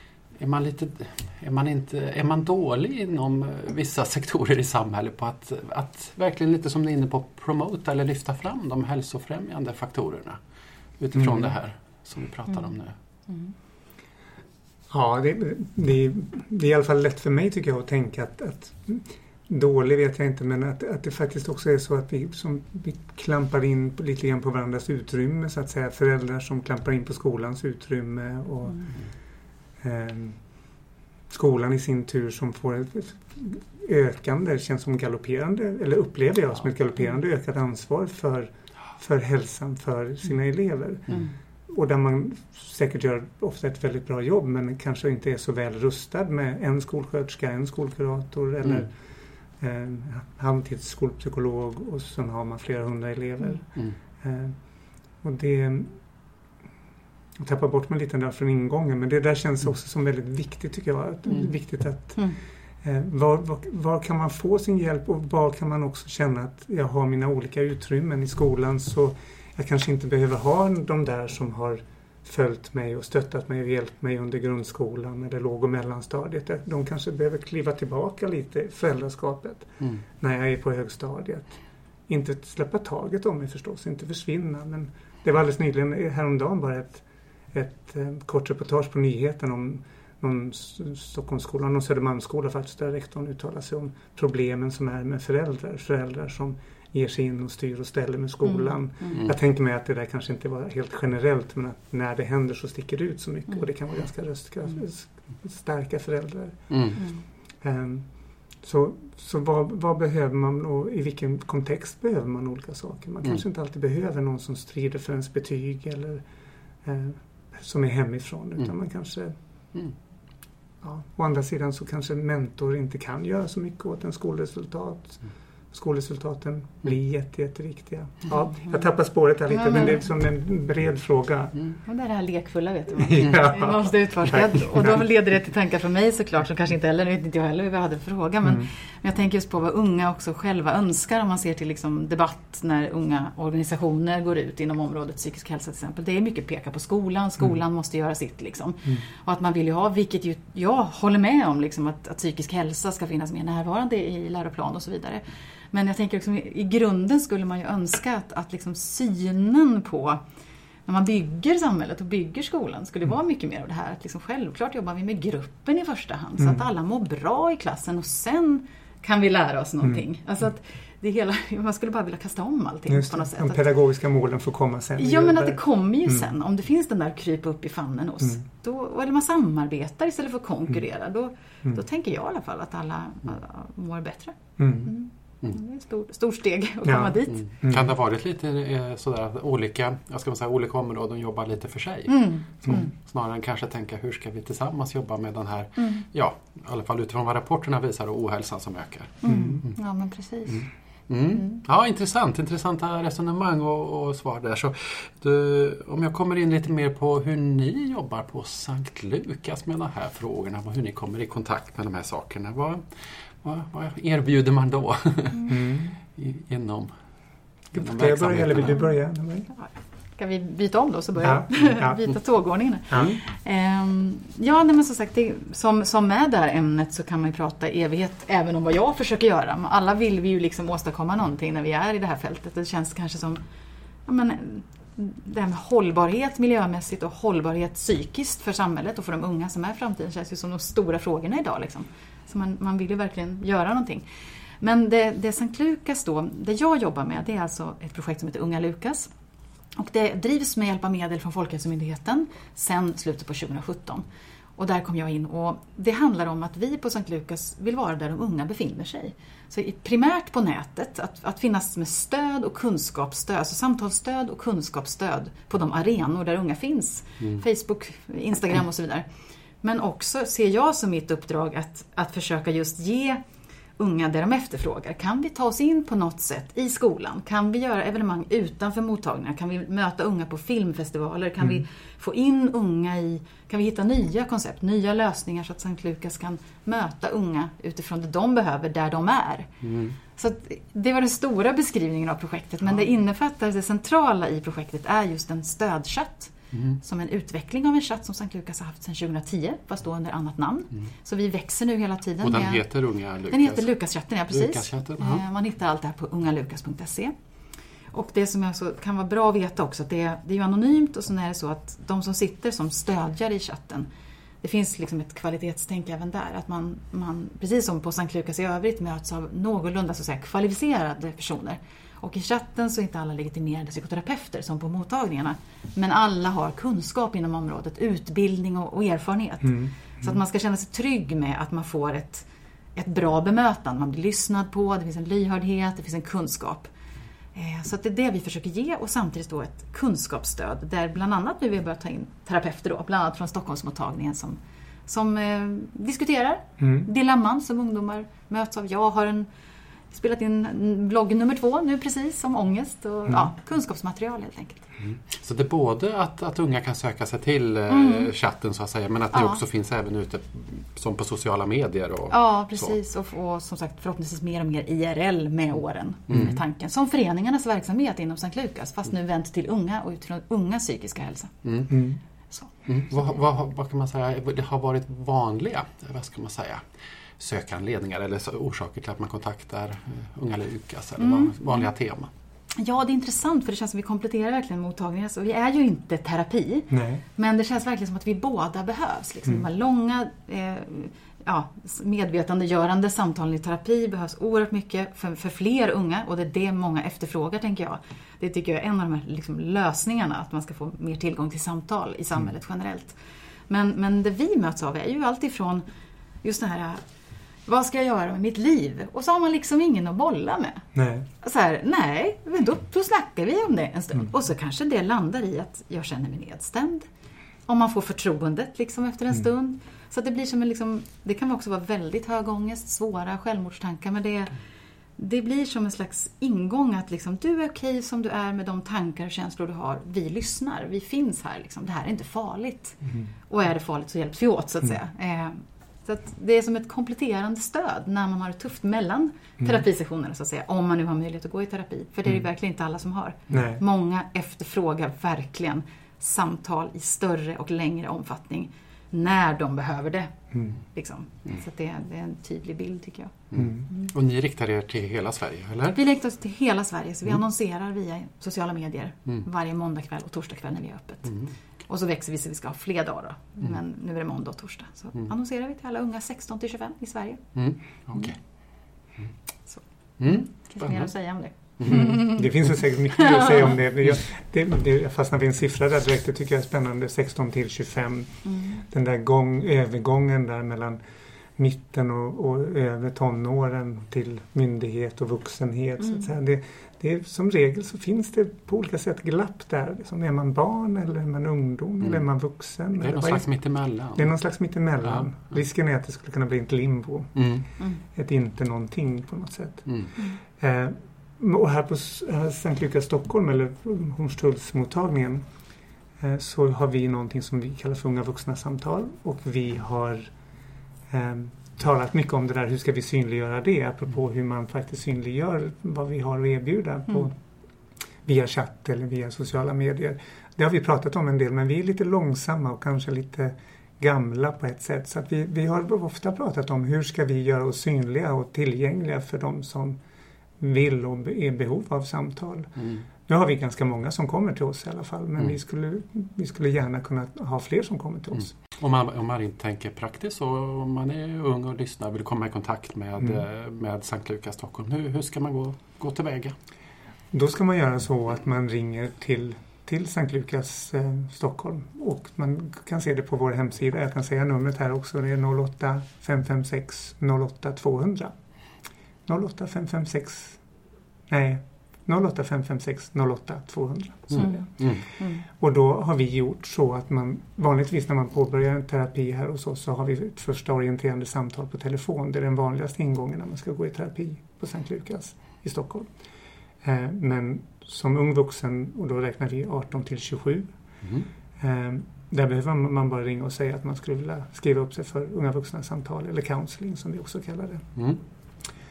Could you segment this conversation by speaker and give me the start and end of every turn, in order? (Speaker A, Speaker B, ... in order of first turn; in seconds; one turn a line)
Speaker A: 0.4-10.4
Speaker A: 11.0-12.9
Speaker B: 11.2-11.5
Speaker B: 14.9-28.9
Speaker B: 29.8-30.6
Speaker B: 31.3-49.0
Speaker B: 49.6-54.6
Speaker B: 55.2-56.0
Speaker B: 57.4-62.3
Speaker B: 62.8-106.8
Speaker C: 98.4-99.2
Speaker A: 106.7-107.0
Speaker B: 107.6-116.2
Speaker B: 116.8-119.3
Speaker B: 120.8-131.6
Speaker C: 128.3-128.8
Speaker C: 129.5-130.0
Speaker C: 131.8-160.2
Speaker B: 133.0-135.0
Speaker C: 160.9-173.7
Speaker B: 166.4-166.6
Speaker B: 172.9-176.3
Speaker C: 175.0-187.4
Speaker B: 184.6-184.9
Speaker B: 186.8-187.9
Speaker A: 187.3-199.7
Speaker C: 192.1-192.9
Speaker C: 199.2-200.7
Speaker B: 199.3-199.6
Speaker A: 200.5-212.8
Speaker C: 201.4-201.6
Speaker A: 213.4-216.9
Speaker B: 215.5-215.9
Speaker A: 217.7-218.8
Speaker B: 217.7-219.5
Speaker C: 219.5-233.4
Speaker B: 221.2-222.0
Speaker B: 222.9-223.2
Speaker A: 222.9-223.2
Speaker C: 234.1-244.1
Speaker C: 244.6-249.1
Speaker C: 249.8-254.1
Speaker C: 254.6-269.1
Speaker C: 269.6-273.2
Speaker C: 273.8-289.5
Speaker A: 289.6-289.9
Speaker C: 290.1-302.6
Speaker A: 296.5-296.8
Speaker A: 302.2-303.8
Speaker C: 303.3-307.1
Speaker A: 304.3-305.2
Speaker C: 307.9-313.9
Speaker C: 314.4-336.7
Speaker B: 329.4-330.1
Speaker C: 337.4-349.3
Speaker B: 346.6-346.9
Speaker C: 349.9-354.7
Speaker A: 354.9-362.8
Speaker C: 357.7-358.1
Speaker C: 359.1-359.4
Speaker C: 362.1-371.4
Speaker A: 366.1-366.4
Speaker A: 371.4-371.7
Speaker B: 371.7-372.0
Speaker A: 372.7-376.6
Speaker A: 377.2-382.1
Speaker C: 381.0-381.6
Speaker C: 382.5-403.0
Speaker B: 386.7-387.0
Speaker C: 403.5-405.6
Speaker C: 406.2-406.8
Speaker C: 407.4-410.6
Speaker B: 410.7-411.1
Speaker C: 411.2-416.9
Speaker C: 417.5-424.3
Speaker C: 425.0-453.9
Speaker B: 443.3-443.6
Speaker A: 453.3-455.8
Speaker B: 453.3-453.6
Speaker C: 455.7-461.1
Speaker A: 461.1-461.3
Speaker C: 461.7-467.2
Speaker A: 467.4-468.2
Speaker C: 469.5-472.2
Speaker A: 470.0-472.2
Speaker B: 471.6-480.8
Speaker C: 472.9-473.5
Speaker C: 478.3-478.6
Speaker B: 481.4-493.3
Speaker A: 492.8-494.1
Speaker B: 493.9-497.3
Speaker A: 494.8-495.1
Speaker A: 497.1-497.4
Speaker B: 497.9-499.7
Speaker B: 500.4-505.2
Speaker B: 506.0-510.1
Speaker B: 510.9-517.2
Speaker B: 518.0-529.8
Speaker B: 530.4-538.3
Speaker A: 532.6-532.8
Speaker A: 538.5-546.3
Speaker B: 547.1-558.1
Speaker B: 559.1-560.4
Speaker B: 561.1-564.8
Speaker A: 564.1-564.9
Speaker C: 564.2-565.2
Speaker B: 565.3-575.9
Speaker B: 576.6-580.5
Speaker A: 580.8-581.1
Speaker B: 581.4-587.7